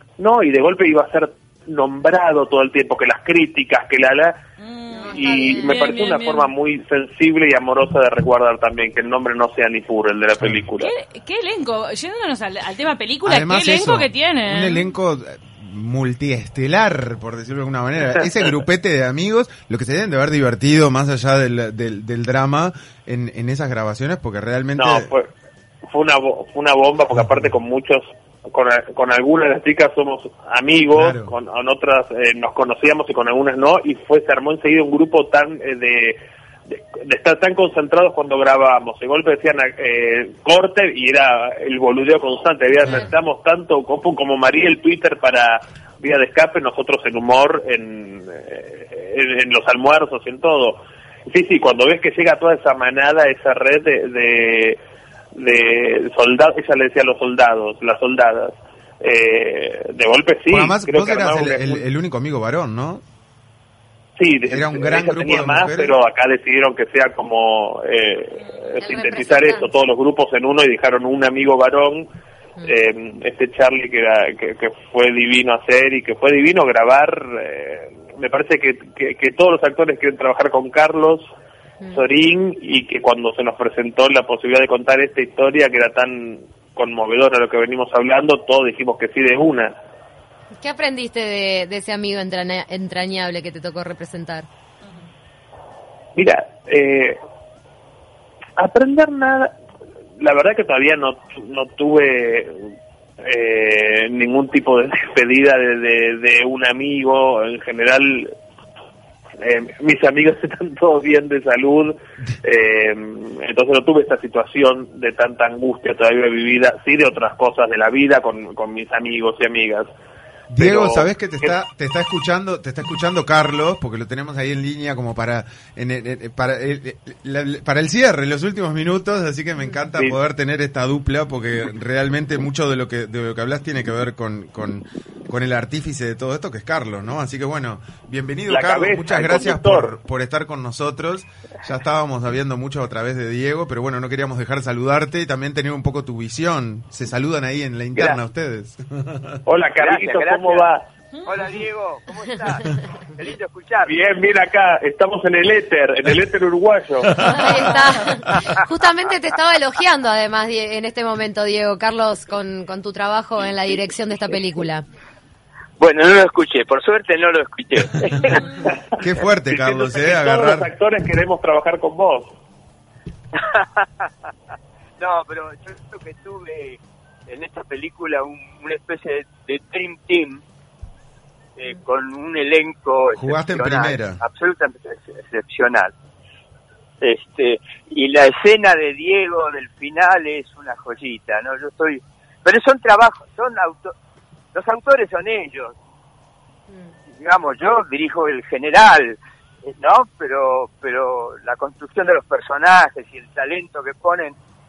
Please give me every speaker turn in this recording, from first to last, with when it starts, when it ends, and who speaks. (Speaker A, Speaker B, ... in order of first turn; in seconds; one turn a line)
Speaker A: 0.2-4.4
Speaker B: 4.6-6.5
Speaker C: 4.9-5.8
Speaker A: 5.1-10.9
Speaker D: 10.4-10.6
Speaker B: 10.8-14.9
Speaker D: 13.2-25.1
Speaker A: 24.8-25.3
Speaker A: 25.9-36.2
Speaker D: 30.9-31.3
Speaker A: 36.7-54.8
Speaker C: 42.8-43.1
Speaker A: 55.4-61.9
Speaker D: 60.5-63.0
Speaker A: 64.2-72.1
Speaker D: 64.5-66.0
Speaker C: 68.8-69.7
Speaker A: 72.6-81.3
Speaker A: 81.9-89.7
Speaker C: 90.6-94.5
Speaker A: 96.2-97.2
Speaker A: 98.6-99.5
Speaker A: 100.2-102.6
Speaker A: 103.2-108.3
Speaker A: 109.4-119.9
Speaker D: 120.5-149.4
Speaker A: 120.5-121.5
Speaker A: 138.5-139.9
Speaker A: 149.5-150.8
Speaker E: 149.8-150.7
Speaker B: 151.1-151.4
Speaker E: 151.2-154.0
Speaker A: 153.9-157.2
Speaker C: 157.2-164.8
Speaker D: 157.3-157.7
Speaker E: 165.8-168.5
Speaker D: 169.0-170.7
Speaker A: 169.5-172.3
Speaker E: 173.4-174.3
Speaker E: 175.0-180.4
Speaker E: 181.6-185.9
Speaker D: 183.1-184.2
Speaker E: 187.0-193.9
Speaker E: 194.5-195.7
Speaker E: 197.1-204.4